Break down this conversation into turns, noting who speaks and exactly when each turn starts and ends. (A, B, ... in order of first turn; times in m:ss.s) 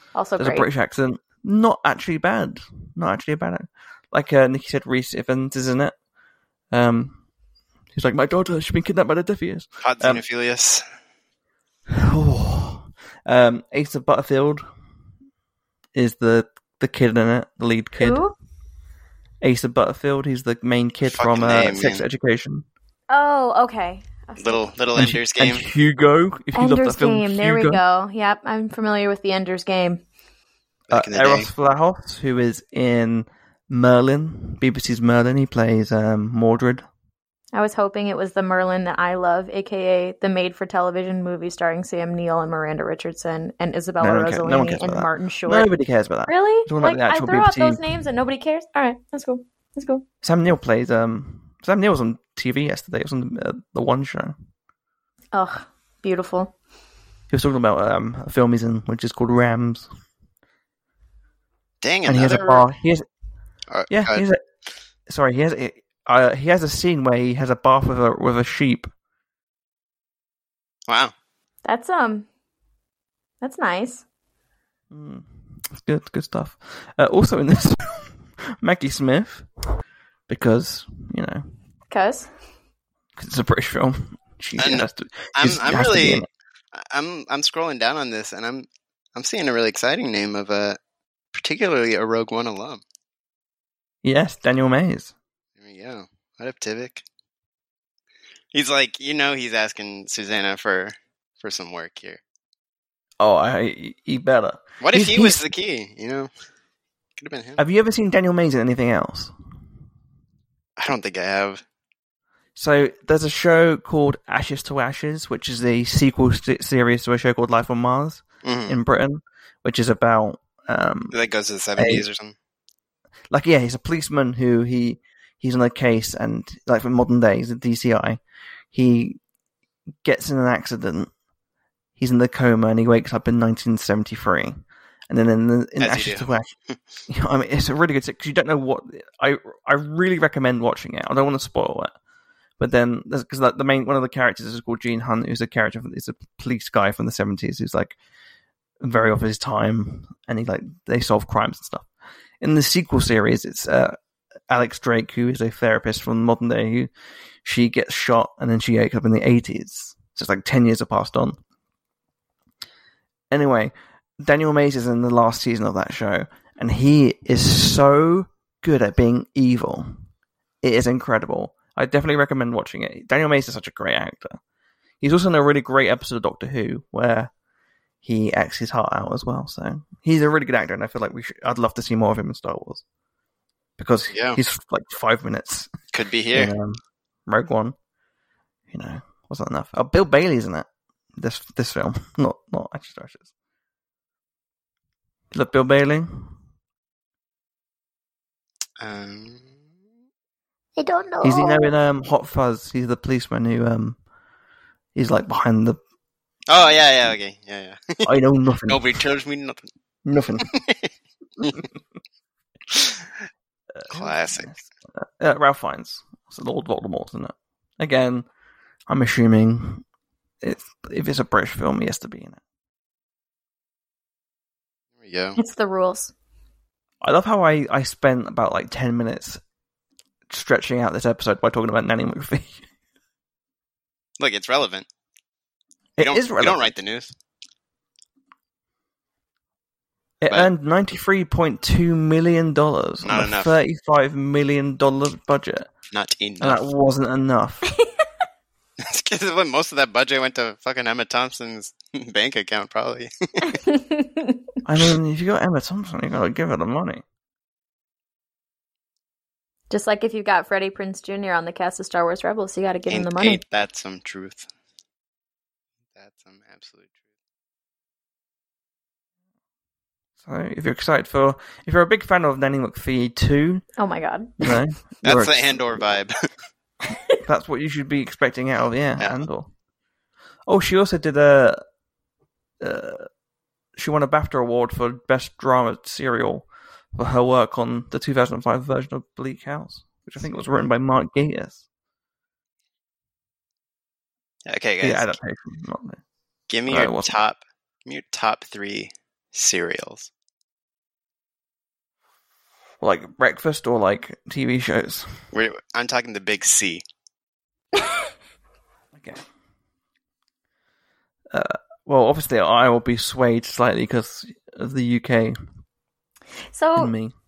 0:00.2-0:00.7 A
0:00.4-0:06.0 B
0:06.7-0:07.2 B
0:07.9-0:10.2 B
0:09.8-0:10.8 C
0:11.9-0:14.6 B
0:15.9-0:18.2 B
0:18.0-0:18.3 A
0:19.4-0:22.6 B
0:21.1-0:22.0 C
0:23.1-0:24.7 A
0:24.4-0:25.6 C
0:25.0-0:27.8 B
0:26.6-0:30.0 A
0:30.9-0:31.5 C
0:30.9-0:36.8 B
0:37.5-0:45.7 A
0:44.0-0:47.8 B
0:46.3-0:50.0 A
0:50.2-0:54.4 B
0:55.3-0:56.5 A
0:57.3-0:59.9 B
1:01.8-1:02.6 C
1:02.1-1:03.0 B
1:03.7-1:04.2 C
1:03.9-1:04.4 B
1:05.1-1:08.9 B
1:10.9-1:11.1 C
1:11.6-1:12.3 A
1:13.4-1:14.0 A
1:14.9-1:19.5 B
1:20.3-1:21.4 B
1:21.9-1:22.3 A
1:23.2-1:26.3 B
1:24.6-1:30.8 C
1:31.4-1:32.8 C
1:34.0-1:35.1 B
1:35.6-1:37.0 C
1:38.5-1:42.2 C
1:43.2-1:45.4 B
1:44.8-1:46.3 C
1:47.2-1:47.6 C
1:47.6-1:49.3 B
1:50.8-1:51.6 C
1:52.6-2:01.2 B
1:58.4-1:58.8 C
2:01.1-2:02.3 C
2:01.8-2:02.0 B
2:03.3-2:08.2 B
2:08.7-2:09.2 B
2:10.0-2:11.1 B
2:12.0-2:16.5 B
2:15.8-2:16.8 C
2:17.1-2:21.9 B
2:22.6-2:28.0 B
2:28.8-2:31.9 B
2:32.4-2:34.0 B
2:34.5-2:36.9 B
2:37.4-2:41.4 B
2:43.3-2:50.0 B
2:50.6-2:54.4 B
2:55.0-2:57.3 B
2:58.0-3:02.8 B
3:03.8-3:05.7 B
3:04.1-3:04.4 C
3:05.9-3:06.5 C
3:06.3-3:07.8 B
3:08.7-3:13.2 B
3:15.3-3:16.3 B
3:18.8-3:19.5 C
3:20.8-3:21.7 A
3:21.2-3:24.0 B
3:25.0-3:25.8 B
3:26.5-3:28.1 C
3:28.0-3:28.8 B
3:28.7-3:29.7 C
3:30.0-3:30.5 B
3:30.4-3:30.9 C
3:32.7-3:33.0 C
3:33.8-3:38.3 B
3:33.9-3:34.5 C
3:38.9-3:39.8 B
3:40.4-3:42.4 B
3:45.0-3:45.4 C
3:45.4-3:46.1 A
3:47.0-3:49.4 B
3:50.3-3:52.6 B
3:54.2-3:54.8 C
3:56.0-3:56.7 B
3:56.0-3:57.1 C
4:00.2-4:05.7 B
4:03.0-4:03.5 C
4:05.9-4:06.6 C
4:06.4-4:07.6 B
4:08.8-4:13.6 C
4:13.7-4:14.4 A
4:14.6-4:17.0 B
4:19.7-4:23.4 A
4:22.9-4:24.5 C
4:26.0-4:26.9 C
4:30.2-4:33.6 B
4:33.8-4:34.3 A
4:34.4-4:35.7 B
4:35.0-4:36.2 C
4:37.2-4:39.5 B
4:40.5-4:41.6 B
4:42.6-4:43.1 B
4:43.8-4:51.6 B
4:54.5-4:55.1 C
4:54.8-4:56.0 B
4:56.5-5:00.1 C
4:56.7-4:57.1 B
5:02.8-5:05.1 B
5:05.3-5:06.8 C
5:07.8-5:08.1 A
5:08.9-5:09.2 B
5:11.3-5:15.4 B
5:16.5-5:16.9 A
5:16.8-5:17.1 B